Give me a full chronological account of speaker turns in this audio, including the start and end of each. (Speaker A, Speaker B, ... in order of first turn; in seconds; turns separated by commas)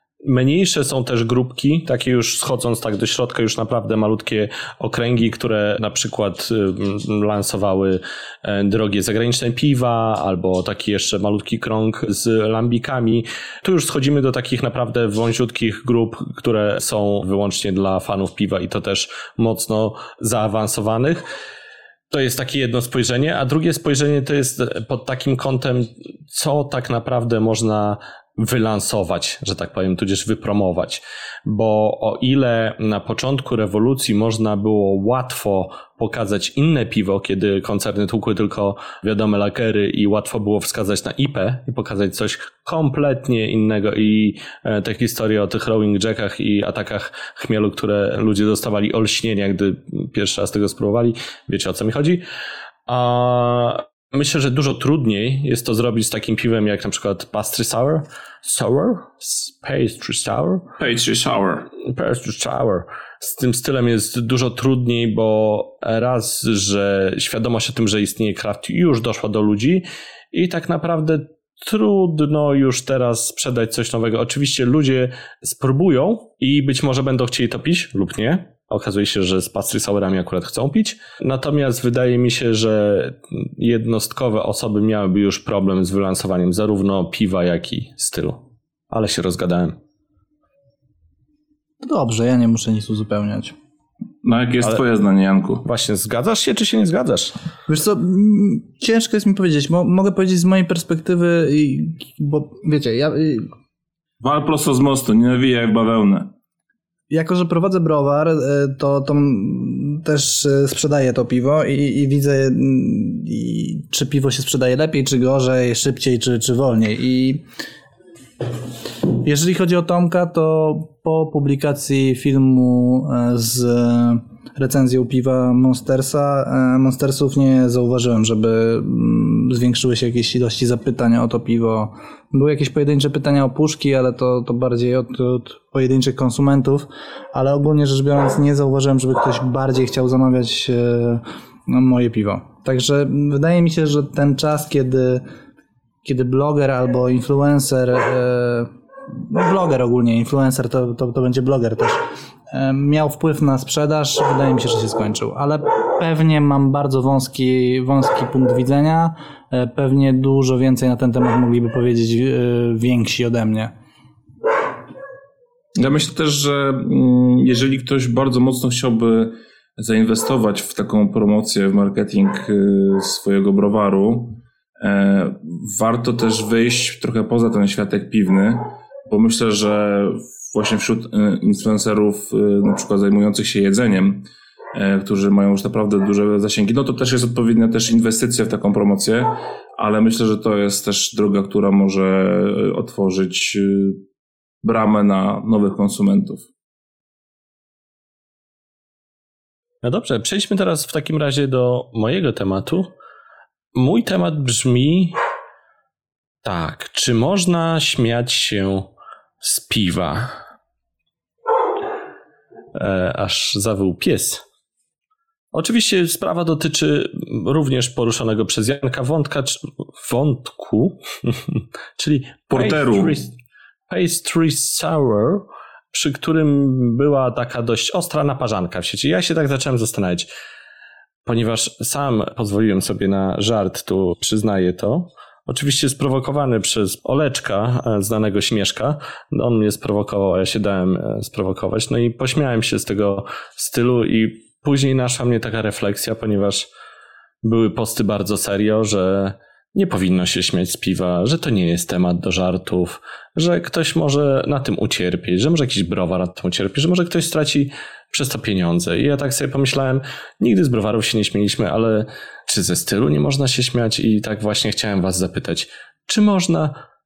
Speaker A: 0.2-21.2, Speaker A: 22.1-52.2, Speaker A: 52.9-60.7, Speaker B: 60.8-61.7, Speaker A: 61.8-89.8, Speaker C: 91.8-93.5, Speaker B: 94.2-95.7, Speaker A: 95.6-97.3, Speaker C: 97.7-103.5, Speaker B: 104.2-106.3, Speaker C: 107.1-117.4, Speaker C: 119.2-145.3, Speaker C: 146.0-163.7, Speaker B: 165.8-194.0, Speaker B: 194.6-196.4, Speaker A: 199.8-202.9, Speaker A: 203.8-205.2, Speaker A: 206.4-208.9, Speaker A: 209.4-210.4, Speaker A: 212.7-214.4, Speaker A: 215.5-223.4, Speaker B: 222.5-223.2, Speaker A: 223.9-230.3, Speaker A: 231.3-246.7, Speaker A: 247.4-266.8